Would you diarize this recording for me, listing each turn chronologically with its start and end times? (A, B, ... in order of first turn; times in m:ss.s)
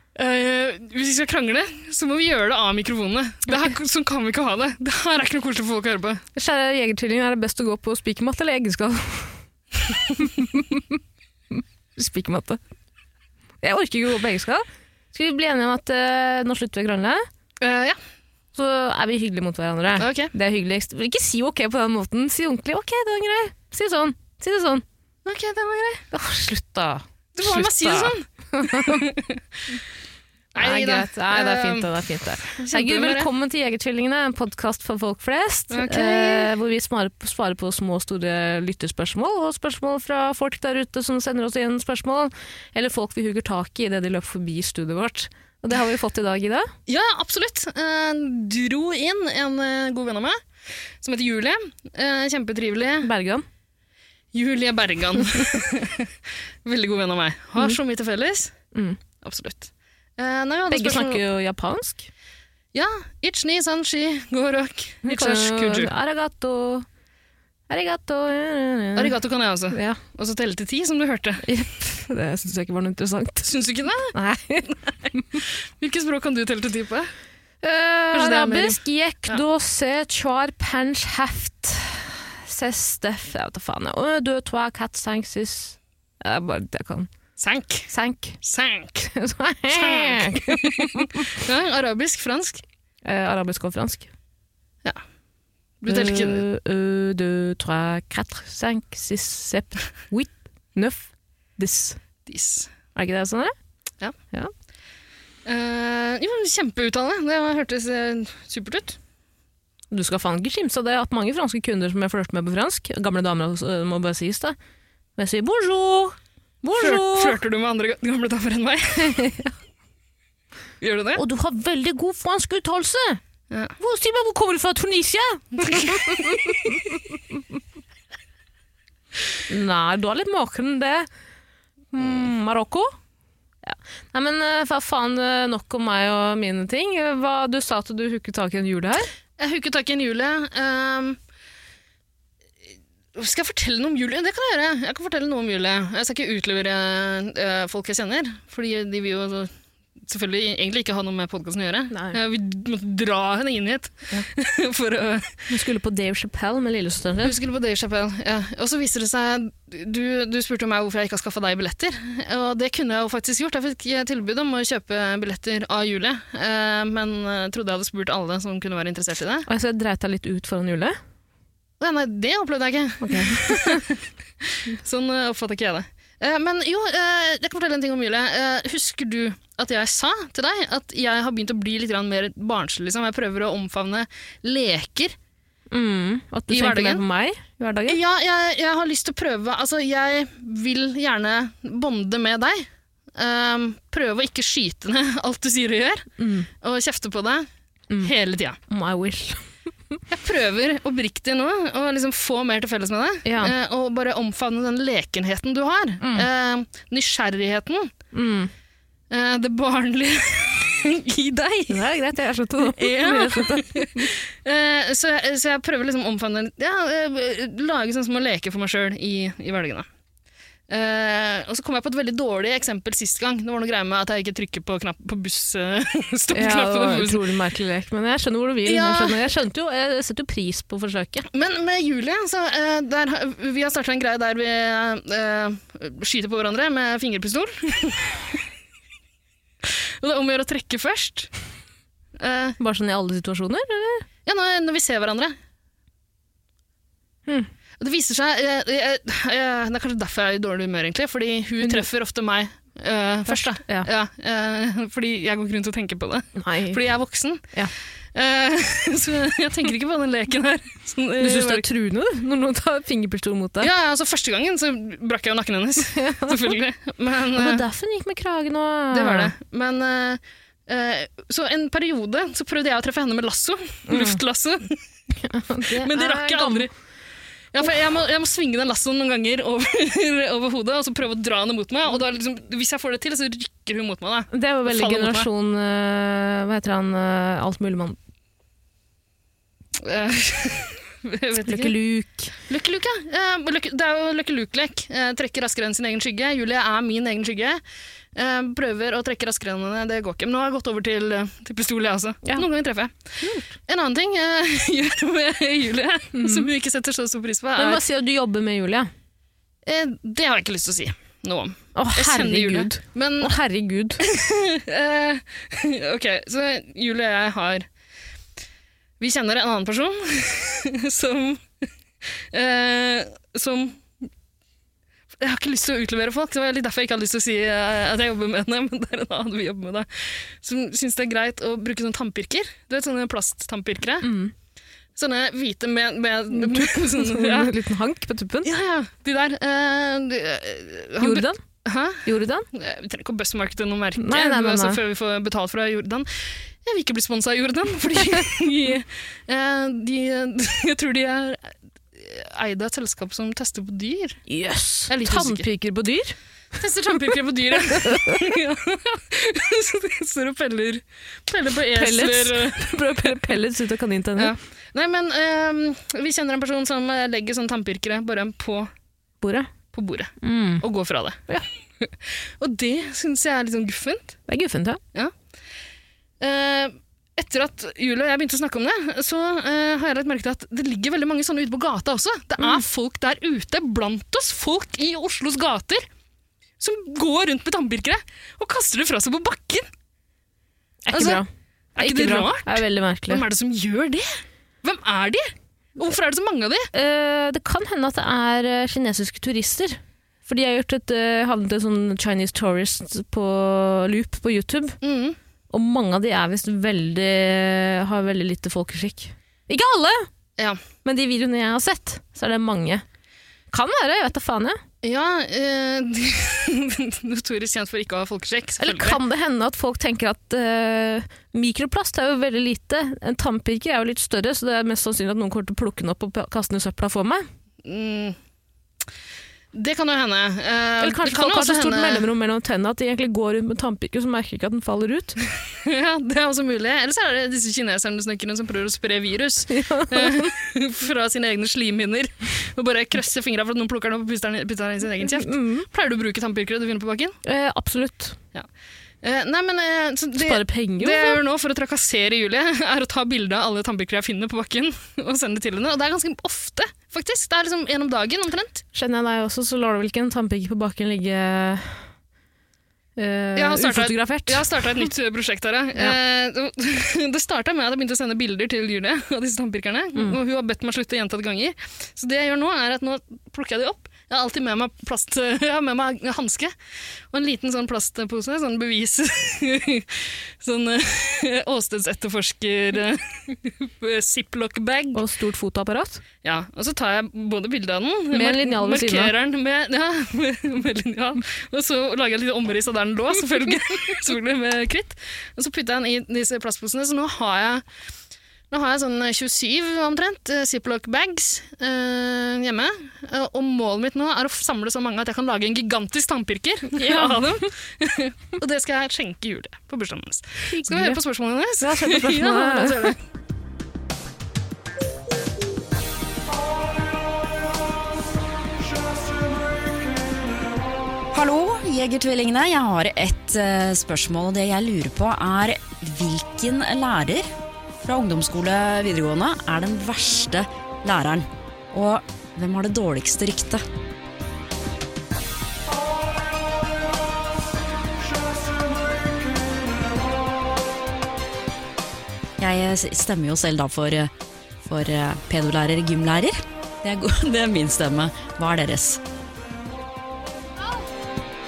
0:00.1-0:06.2 A
0:06.4-0:09.3 B
0:10.2-0:10.8 B
0:11.5-0:12.6 B
0:13.6-0:17.2 B
0:17.6-0:18.0 A
0:18.5-0:24.8 B
0:20.0-0:20.3 A
0:25.2-0:26.0 A
0:26.1-0:29.0 B
0:27.3-0:29.6 A
0:30.5-0:33.3 A
0:30.6-0:46.7 B
0:35.7-0:36.5 A
0:46.9-0:50.4 A
0:51.0-0:53.1 A
0:53.0-0:53.4 B
0:54.3-0:56.1 A
0:56.6-0:58.5 A
0:58.7-0:59.0 B
0:59.2-1:01.2 A
1:00.7-1:02.1 B
1:02.7-1:05.9 A
1:05.0-1:06.8 B
1:07.7-1:09.2 B
1:08.9-1:11.5 A
1:09.7-1:10.0 B
1:11.4-1:13.5 B
1:13.4-1:14.1 A
1:14.1-1:15.4 B
1:15.3-1:17.1 A
1:17.6-1:27.1 B
1:18.1-1:19.4 A
1:27.4-1:27.9 A
1:27.9-1:28.4 B
1:28.4-1:29.1 A
1:29.1-1:31.3 B
1:29.7-1:32.6 A
1:33.0-1:34.1 B
1:35.8-1:36.4 A
1:35.8-1:42.0 B
1:42.2-1:42.7 A
1:42.9-1:43.5 B
1:45.4-1:49.0 A
1:49.9-1:54.6 B
1:55.2-1:57.4 B
1:56.8-1:59.2 A
1:59.0-1:59.5 B
2:00.8-2:01.2 A
2:01.2-2:03.2 B
2:03.8-2:07.4 B
2:05.7-2:06.4 A
2:09.5-2:11.1 B
2:11.9-2:12.9 B
2:13.6-2:19.1 B
2:19.4-2:21.2 A
2:23.1-2:35.5 A
2:31.9-2:32.2 B
2:35.5-2:37.4 B
2:37.2-2:49.5 A
2:49.5-2:51.0 B
2:51.8-3:05.2 A
2:53.0-2:53.8 B
3:05.7-3:08.0 B
3:06.5-3:07.0 A
3:07.9-3:17.5 A
3:16.2-3:16.5 B
3:18.0-3:18.6 A
3:18.7-3:19.4 B
3:20.1-3:27.9 A
3:23.2-3:23.5 B
3:26.0-3:26.3 B
3:28.1-3:28.5 B
3:29.1-3:31.8 A
3:31.7-3:34.1 B
3:32.6-3:39.9 A
3:40.7-3:47.2 A
3:46.3-3:51.3 B
3:48.6-3:49.3 A
3:51.3-3:58.2 A
3:59.6-4:01.3 A
4:02.1-4:02.6 A
4:02.6-4:04.0 B
4:04.2-4:05.4 A
4:07.8-4:17.4 A
4:13.3-4:13.9 B
4:16.4-4:16.8 B
4:18.1-4:21.7 A
4:21.2-4:23.7 B
4:23.6-4:27.6 A
4:25.9-4:26.5 B
4:27.3-4:29.3 B
4:28.9-4:34.8 A
4:33.9-4:34.2 B
4:35.2-4:36.7 B
4:35.7-4:36.7 A
4:37.5-4:45.3 A
4:44.3-4:48.0 B
4:49.8-4:51.7 A
4:51.4-4:52.3 B
4:52.5-4:57.6 A
4:58.1-5:07.8 A
5:03.2-5:03.5 B
5:06.1-5:06.5 B
5:07.6-5:08.9 B
5:09.6-5:13.3 A
5:11.7-5:14.0 B
5:14.0-5:17.7 A
5:19.0-5:24.1 A
5:25.2-5:34.1 A
5:34.0-5:34.3 B
5:35.0-5:37.5 A
5:36.3-5:38.5 B
5:38.4-5:54.2 A
5:41.0-5:41.4 B
5:42.0-5:42.5 B
5:44.0-5:44.8 B
5:54.3-5:56.2 B
5:54.9-5:55.4 A
5:56.6-6:03.2 A
5:57.6-5:58.3 B
6:01.7-6:04.4 B
6:04.2-6:08.7 A
6:09.2-6:09.5 B
6:09.7-6:11.2 A
6:10.2-6:10.6 B
6:11.8-6:14.2 A
6:14.3-6:14.8 B
6:16.2-6:25.9 A
6:26.6-6:29.7 A
6:30.9-6:31.3 B
6:30.9-6:31.2 A
6:31.8-6:36.7 A
6:31.8-6:33.2 B
6:36.7-6:44.8 B
6:44.8-6:45.2 A
6:45.5-6:50.1 B
6:50.4-6:50.6 A
6:50.8-6:52.8 B
6:53.5-6:54.6 B
6:54.8-6:59.0 A
6:58.6-7:07.2 B
7:07.6-7:08.2 A
7:09.5-7:12.1 A
7:10.8-7:15.2 B
7:15.3-7:27.2 A
7:19.5-7:20.3 B
7:25.0-7:25.6 B
7:27.2-7:28.2 B
7:29.0-7:38.6 A
7:30.2-7:31.2 B
7:38.7-7:41.8 B
7:43.0-7:44.9 B
7:43.4-7:56.5 A
7:57.1-8:05.0 A
8:04.9-8:06.0 B
8:06.2-8:17.6 A
8:08.1-8:09.1 B
8:18.5-8:33.0 A
8:26.7-8:27.3 B
8:30.5-8:31.0 B
8:31.6-8:33.0 B
8:41.1-8:47.3 C
8:47.8-8:53.6 C
9:02.4-9:09.0 C